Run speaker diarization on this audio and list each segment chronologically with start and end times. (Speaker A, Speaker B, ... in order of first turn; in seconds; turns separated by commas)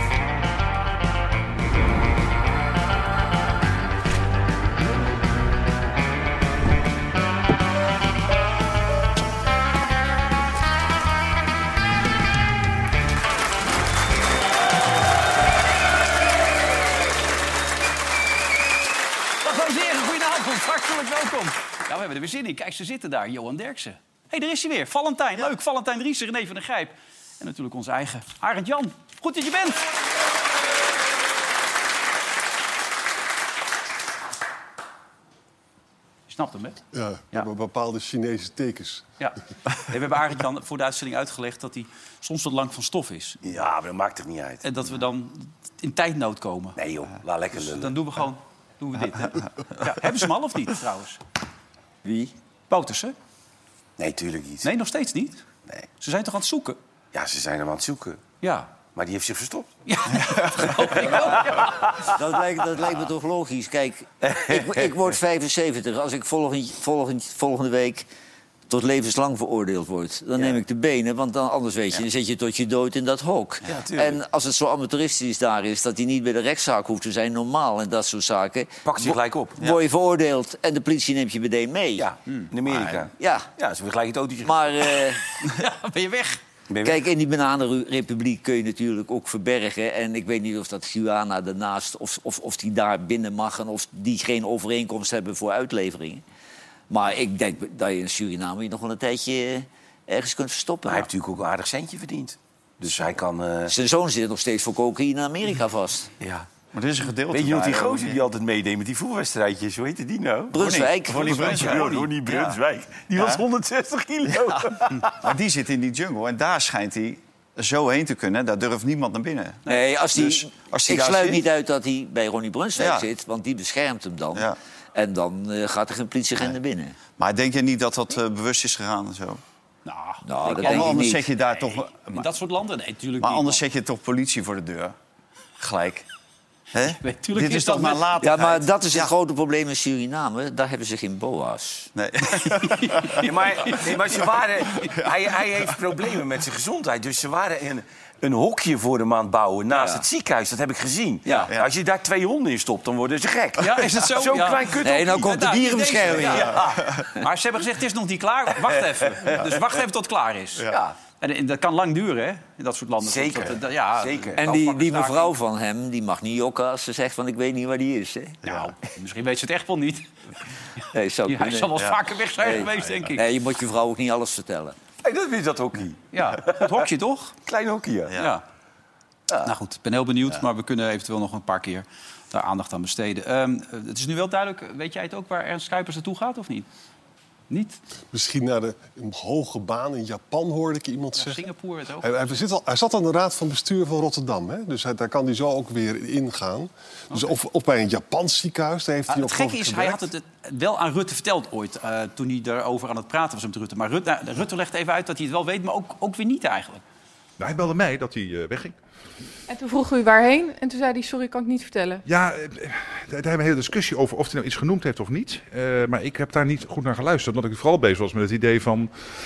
Speaker A: 19.4-29.8, Speaker A: 36.3-36.8, Speaker B: 36.9-39.0, Speaker A: 39.2-43.4, Speaker C: 43.4-44.6, Speaker A: 44.6-46.8, Speaker C: 46.8-48.0, Speaker A: 47.6-51.2, Speaker D: 52.0-52.3, Speaker A: 52.7-53.1, Speaker C: 54.0-54.7, Speaker A: 54.6-55.4, Speaker A: 56.0-56.8, Speaker C: 57.1-58.2, Speaker A: 58.4-58.7, Speaker C: 59.0-59.7, Speaker A: 59.9-61.9, Speaker C: 61.1-62.1, Speaker D: 62.0-68.1, Speaker C: 64.2-64.9, Speaker D: 68.7-82.1, Speaker C: 73.7-74.2, Speaker C: 78.8-79.6, Speaker C: 82.0-85.1, Speaker E: 82.7-83.1, Speaker D: 83.2-83.5, Speaker D: 84.4-85.3, Speaker A: 85.5-86.4, Speaker C: 86.7-87.0, Speaker D: 86.8-96.2, Speaker D: 96.9-101.1, Speaker C: 100.9-103.7, Speaker D: 103.7-106.1, Speaker C: 106.2-106.5, Speaker E: 106.7-108.2, Speaker C: 107.3-115.2, Speaker D: 110.5-111.8, Speaker E: 110.5-112.6, Speaker E: 113.1-113.4, Speaker E: 114.3-121.5, Speaker D: 119.7-127.0, Speaker E: 122.8-123.1, Speaker E: 127.2-129.4, Speaker A: 129.9-133.6, Speaker D: 130.3-131.2, Speaker E: 130.4-132.3, Speaker E: 133.2-134.9, Speaker E: 135.6-136.1, Speaker E: 136.7-139.1, Speaker A: 136.9-138.1, Speaker D: 138.2-141.9, Speaker E: 142.0-143.3, Speaker A: 142.4-143.8, Speaker C: 143.2-155.4, Speaker D: 149.7-150.0, Speaker A: 153.6-156.6, Speaker D: 154.8-156.6, Speaker C: 156.2-156.9, Speaker A: 157.2-160.7, Speaker A: 161.2-165.3, Speaker C: 163.0-164.4, Speaker D: 164.4-168.4, Speaker A: 168.4-170.1, Speaker A: 170.8-173.2, Speaker D: 170.9-171.7, Speaker D: 172.4-174.8, Speaker C: 175.0-176.8, Speaker A: 176.1-177.3, Speaker C: 177.5-178.2, Speaker A: 178.2-178.4, Speaker A: 179.4-186.7, Speaker A: 187.5-187.8, Speaker B: 188.1-191.4, Speaker A: 191.2-192.1, Speaker B: 192.0-200.1, Speaker A: 199.1-206.8, Speaker F: 207.4-208.8, Speaker G: 209.5-212.0, Speaker F: 212.1-218.9